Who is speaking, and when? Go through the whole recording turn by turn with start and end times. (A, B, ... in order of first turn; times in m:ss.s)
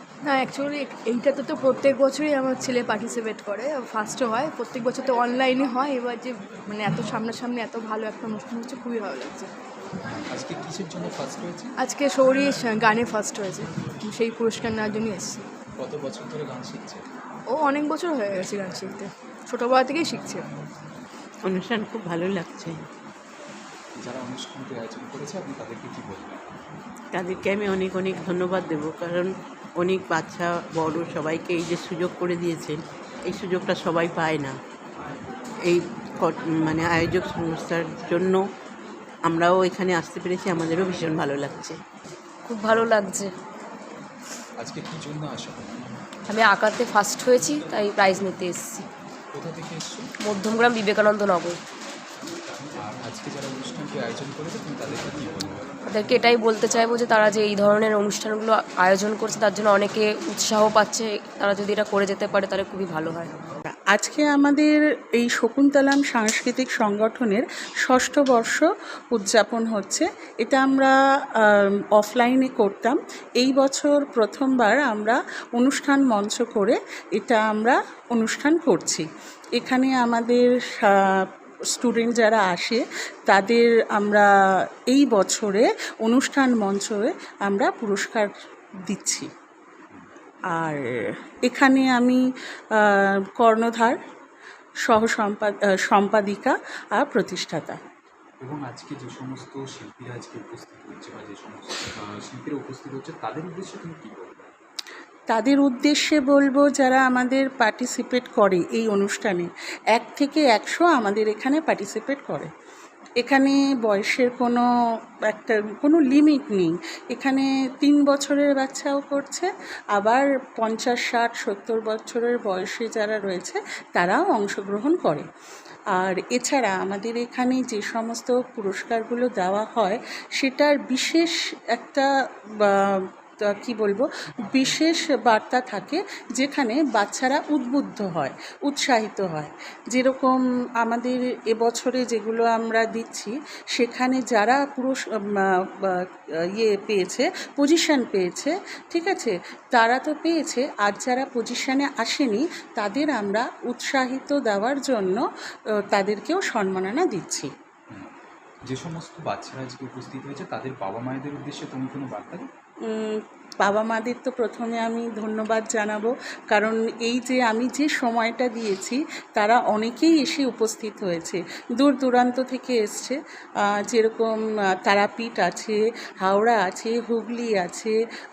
0:00.3-0:09.5 A
0:10.1-0:11.7 B
0:11.8-0:15.4 A
0:15.8-0:17.0 B
0:17.5-0:20.5 A
0:21.5-0:22.8 C
0:24.0-0:26.5 B
0:27.2-0:29.3 C
0:29.8-0:32.8 C
0:33.3-0:34.5 C
0:35.7-0:38.4 C
0:39.3-0:41.8 C
0:42.5-0:43.3 D
0:44.6-0:45.9 B
0:46.3-0:48.9 D
0:49.4-0:50.1 B
0:50.3-0:51.6 D
0:52.2-0:55.6 B
0:55.9-1:03.4 D
1:03.9-1:10.9 E
1:11.5-1:19.1 E
1:19.6-1:21.1 E
1:21.7-1:24.3 E
1:24.9-1:28.3 E
1:28.9-1:29.3 E
1:30.5-1:30.8 E
1:31.5-1:32.2 E
1:32.8-1:34.0 E
1:34.9-1:37.8 E
1:38.4-1:44.5 B
1:45.3-1:52.5 E
1:53.2-1:54.6 E
1:55.3-2:05.3 E
2:05.9-2:12.1 E
2:12.6-2:26.0 E
2:26.6-2:35.2 E
2:35.9-2:37.5 E
2:38.7-2:42.5 B
2:42.9-2:53.2 E
2:53.8-2:54.3 E
2:54.8-2:58.0 E